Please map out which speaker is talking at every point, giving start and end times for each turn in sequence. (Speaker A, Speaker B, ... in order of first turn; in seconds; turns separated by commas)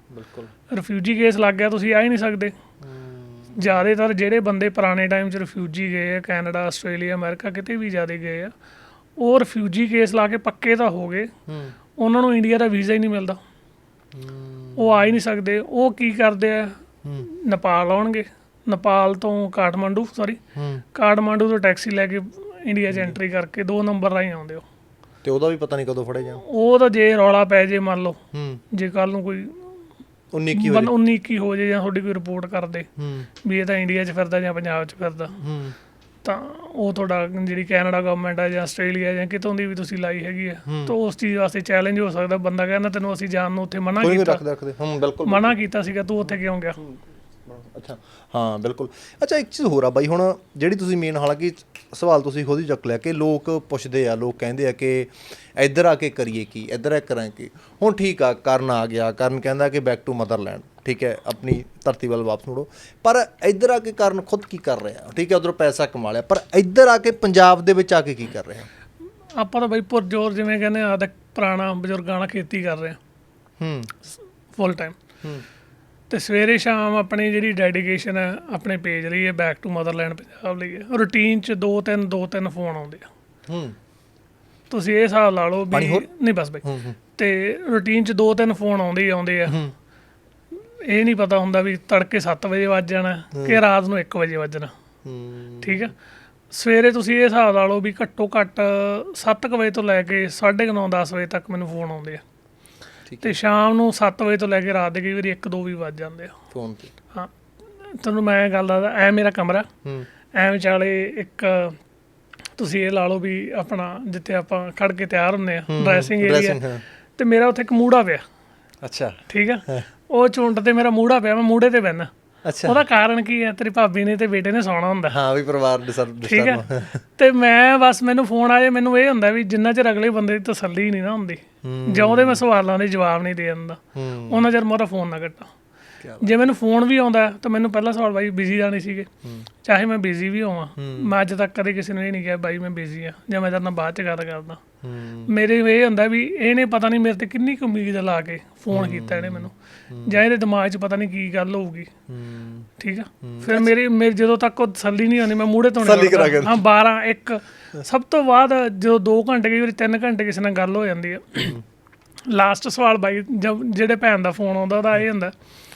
Speaker A: 0.1-0.5, Speaker B: 0.7-2.5, Speaker A: 2.8-3.7, Speaker B: 3.5-8.5, Speaker B: 9.2-11.3, Speaker A: 11.5-11.8, Speaker B: 12.0-13.4, Speaker A: 14.1-15.1, Speaker B: 14.8-20.4, Speaker A: 20.5-20.8, Speaker B: 20.9-24.6, Speaker A: 22.9-23.2, Speaker A: 25.2-26.4, Speaker B: 26.4-28.2, Speaker A: 28.3-28.6, Speaker B: 28.7-29.7, Speaker A: 30.3-30.9, Speaker B: 30.5-32.9, Speaker A: 33.0-33.3, Speaker B: 33.4-35.4, Speaker A: 35.4-35.8, Speaker B: 36.2-44.4, Speaker A: 40.7-40.9, Speaker A: 44.0-45.5, Speaker B: 45.2-46.8, Speaker A: 46.8-68.7, Speaker B: 69.3-73.0, Speaker A: 73.6-73.9, Speaker B: 74.5-75.0, Speaker B: 76.1-83.1, Speaker A: 83.5-83.7, Speaker B: 84.7-86.6, Speaker A: 85.7-86.1, Speaker A: 86.6-87.0, Speaker B: 87.2-89.6, Speaker A: 89.5-89.7, Speaker B: 90.8-94.7, Speaker A: 93.3-93.6, Speaker A: 95.0-95.9, Speaker B: 95.6-95.9, Speaker B: 96.5-102.2, Speaker A: 103.1-103.4, Speaker B: 103.2-106.3, Speaker A: 106.5-106.9, Speaker B: 107.8-109.7, Speaker B: 110.3-111.8, Speaker B: 112.6-116.6, Speaker A: 115.7-116.8, Speaker B: 117.2-118.2, Speaker A: 118.8-119.8, Speaker B: 119.3-122.1, Speaker A: 122.4-122.8, Speaker B: 122.6-125.2, Speaker A: 125.1-127.0, Speaker B: 126.2-126.6, Speaker B: 127.2-135.5, Speaker A: 131.6-132.4, Speaker A: 133.9-134.5, Speaker A: 136.0-136.3, Speaker B: 136.2-139.1, Speaker B: 139.6-144.6, Speaker A: 140.8-141.1, Speaker A: 144.8-145.3, Speaker B: 145.3-149.5, Speaker A: 148.7-150.2, Speaker B: 150.0-151.9, Speaker A: 152.1-152.7, Speaker B: 152.8-161.6, Speaker A: 153.2-153.7, Speaker A: 155.8-156.6, Speaker B: 162.3-165.3